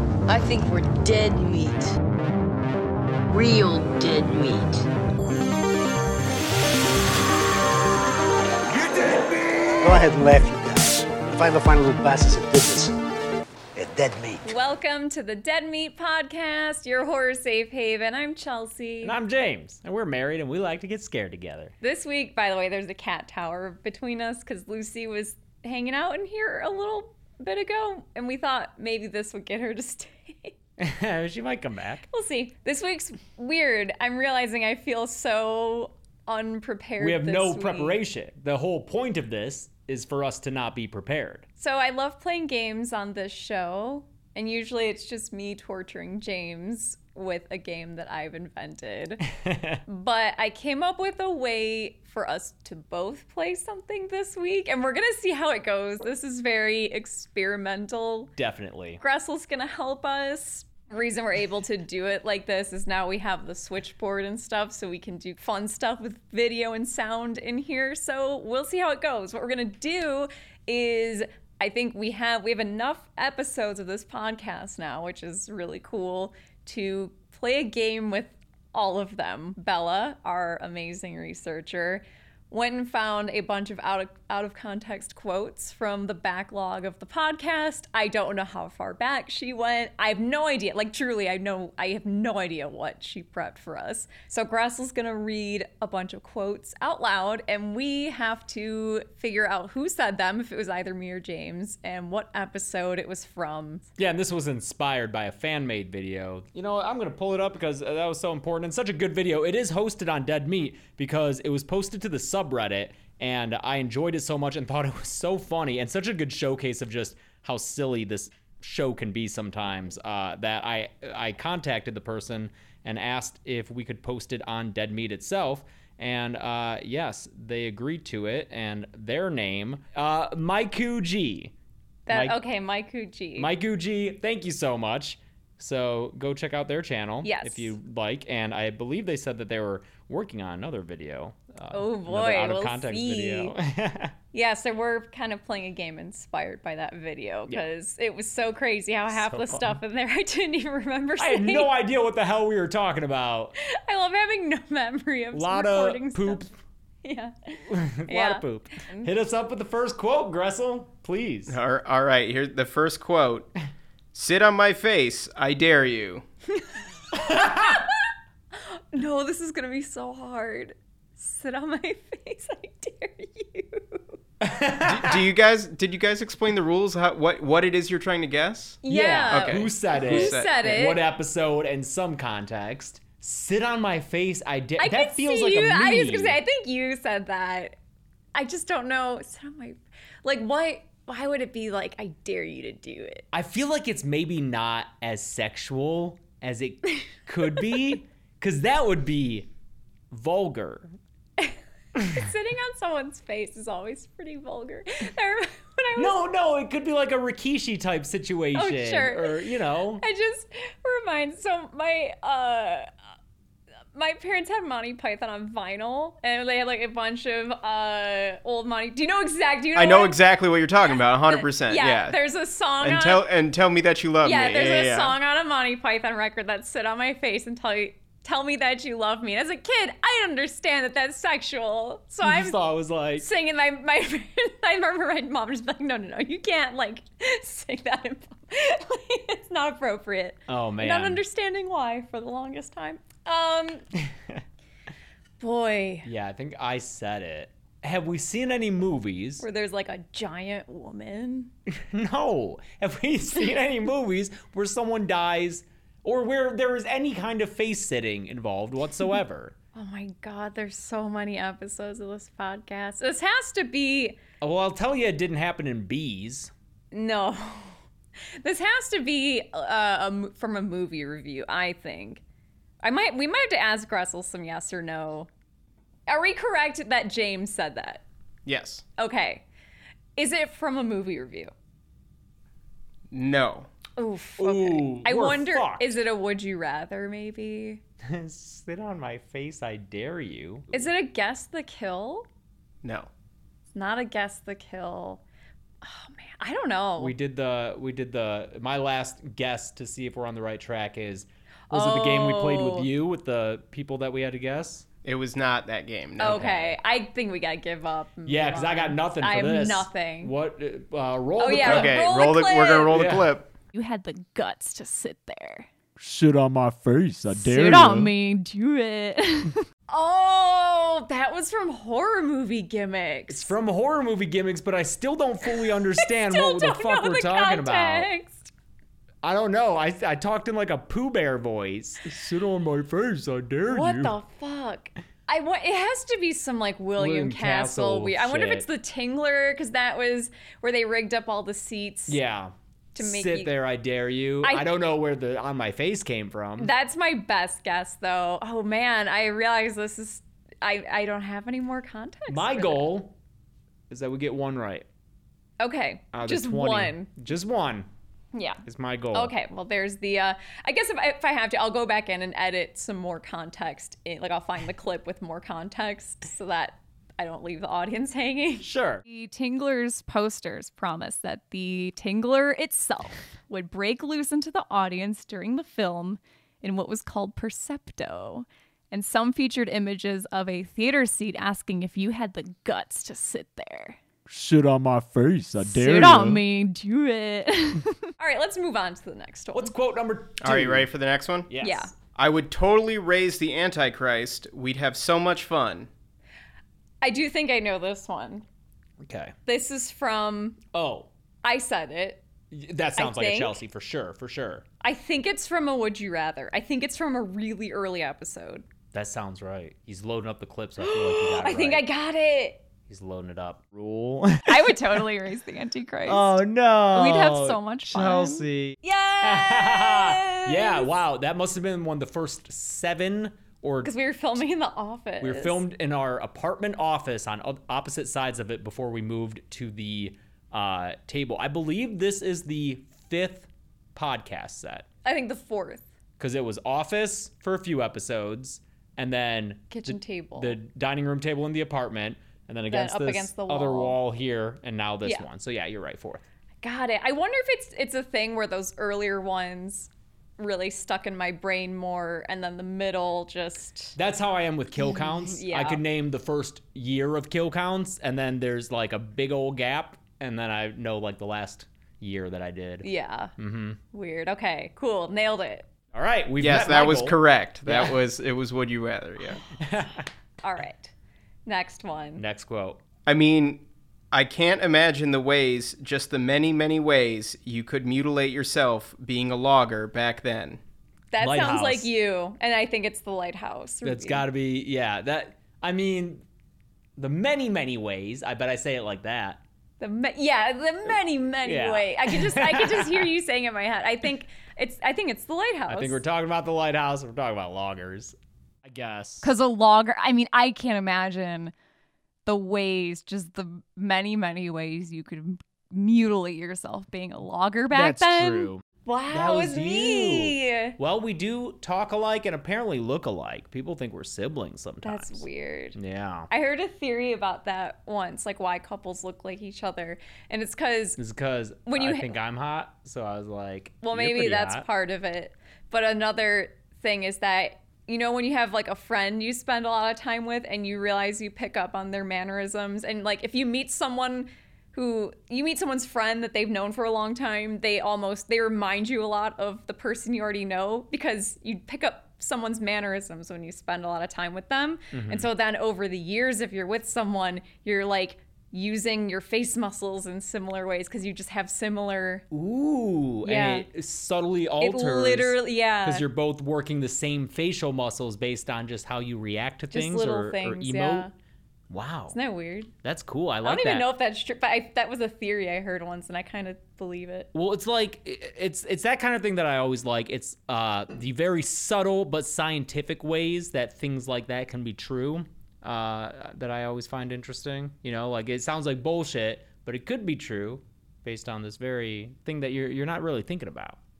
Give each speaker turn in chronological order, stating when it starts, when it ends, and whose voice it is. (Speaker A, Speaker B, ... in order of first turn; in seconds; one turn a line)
Speaker A: 0.3-1.9
Speaker A: 3.3-4.9
Speaker B: 8.7-12.9
Speaker B: 13.7-14.5
Speaker C: 14.4-19.1
Speaker D: 19.0-21.7
Speaker C: 21.8-30.5
Speaker D: 30.8-32.0
Speaker C: 32.1-38.0
Speaker D: 37.0-41.5
Speaker C: 41.6-49.2
Speaker D: 49.3-49.8
Speaker C: 49.9-58.3
Speaker D: 58.4-59.0
Speaker C: 59.0-103.8
Speaker D: 104.0-131.5
Speaker C: 132.1-133.5
Speaker D: 132.1-132.4
Speaker D: 133.3-144.1
Speaker C: 137.2-137.7
Speaker C: 141.7-143.5
Speaker C: 144.3-151.7
Speaker D: 149.1-149.8
Speaker D: 151.2-153.6
Speaker C: 153.6-156.4
Speaker D: 155.3-156.5
Speaker C: 157.0-159.1
Speaker D: 157.7-161.6
Speaker E: 161.5-163.5
Speaker E: 164.1-166.2
Speaker D: 167.1-167.8
Speaker C: 167.4-168.0
Speaker C: 168.5-174.0
Speaker D: 174.4-175.2
Speaker E: 174.8-180.5
Speaker C: 178.8-181.0
Speaker D: 178.9-186.4
Speaker C: 184.8-187.8
Speaker C: 188.3-193.2
Speaker D: 193.3-199.5
Speaker D: 200.1-200.9
Speaker C: 201.4-206.2
Speaker D: 205.9-210.0
Speaker C: 208.5-209.4
Speaker C: 210.0-212.9
Speaker C: 213.9-220.2
Speaker E: 219.7-222.2
Speaker C: 221.3-223.2
Speaker E: 222.8-225.2
Speaker C: 224.2-232.6
Speaker D: 232.2-233.3
Speaker C: 233.2-243.8
Speaker D: 240.5-241.2
Speaker D: 244.0-244.4
Speaker C: 245.4-246.1
Speaker D: 246.0-249.4
Speaker C: 249.4-251.5
Speaker D: 251.7-259.6
Speaker C: 259.7-264.2
Speaker D: 264.4-266.5
Speaker C: 266.9-267.8
Speaker C: 268.4-272.2
Speaker C: 272.8-275.3
Speaker C: 276.1-278.0
Speaker E: 278.4-278.8
Speaker C: 279.0-279.4
Speaker C: 280.1-281.5
Speaker E: 283.1-283.7
Speaker C: 284.0-287.8
Speaker D: 284.4-286.0
Speaker D: 288.0-290.8
Speaker C: 290.7-292.3
Speaker E: 292.8-293.1
Speaker C: 293.7-295.2
Speaker C: 295.8-297.1
Speaker D: 297.0-304.9
Speaker C: 301.7-302.9
Speaker E: 305.0-306.5
Speaker D: 306.2-306.8
Speaker C: 306.2-310.3
Speaker D: 308.2-312.0
Speaker C: 311.4-312.9
Speaker E: 311.6-313.5
Speaker D: 312.9-313.4
Speaker C: 313.7-315.7
Speaker F: 316.0-318.1
Speaker C: 317.3-323.5
Speaker D: 323.3-328.1
Speaker C: 325.5-328.5
Speaker D: 329.2-334.2
Speaker C: 333.6-342.2
Speaker D: 337.0-338.7
Speaker D: 342.1-346.7
Speaker C: 342.9-343.6
Speaker C: 344.4-344.7
Speaker C: 346.6-352.9
Speaker D: 352.3-353.1
Speaker D: 353.9-354.9
Speaker C: 355.6-357.1
Speaker D: 356.1-357.9
Speaker C: 358.3-358.6
Speaker D: 358.6-359.3
Speaker C: 359.1-384.0
Speaker D: 368.6-369.0
Speaker F: 384.3-386.4
Speaker C: 385.6-389.7
Speaker D: 389.5-390.9
Speaker E: 390.4-391.5
Speaker D: 391.5-391.9
Speaker C: 391.6-391.9
Speaker E: 392.1-395.9
Speaker C: 397.0-398.4
Speaker D: 399.0-399.3
Speaker C: 399.4-400.6
Speaker D: 400.7-401.1
Speaker C: 401.4-402.2
Speaker D: 402.5-404.6
Speaker C: 402.9-403.6
Speaker C: 404.8-408.6
Speaker D: 408.9-411.9
Speaker C: 410.8-412.6
Speaker D: 412.9-415.1
Speaker C: 414.4-416.4
Speaker D: 416.1-423.9
Speaker C: 416.9-420.9
Speaker C: 423.8-425.6
Speaker D: 425.2-434.9
Speaker C: 435.0-435.9
Speaker D: 436.2-446.2
Speaker C: 439.7-440.6
Speaker C: 442.7-444.0
Speaker C: 446.6-453.9
Speaker D: 453.9-463.8
Speaker C: 454.8-455.8
Speaker C: 462.8-463.3
Speaker C: 463.9-465.6
Speaker D: 465.9-468.0
Speaker E: 466.4-469.4
Speaker D: 469.6-470.1
Speaker C: 470.4-470.9
Speaker C: 471.4-472.2
Speaker D: 472.2-472.8
Speaker E: 473.1-480.6
Speaker C: 481.1-484.3
Speaker D: 481.2-481.9
Speaker D: 483.8-486.2
Speaker D: 487.0-489.4
Speaker C: 489.8-496.0
Speaker D: 491.4-493.1
Speaker D: 495.7-499.3
Speaker C: 499.2-501.5
Speaker C: 502.2-510.8
Speaker D: 507.7-516.3
Speaker C: 514.8-515.8
Speaker C: 516.3-521.0
Speaker D: 521.0-524.7
Speaker C: 521.6-522.2
Speaker C: 523.8-552.2
Speaker D: 544.9-545.3
Speaker D: 552.3-561.1
Speaker C: 553.2-553.7
Speaker C: 554.6-556.1
Speaker C: 559.7-561.1
Speaker D: 561.7-562.2
Speaker C: 562.1-562.7
Speaker D: 562.8-563.9
Speaker C: 563.4-567.3
Speaker D: 567.3-583.8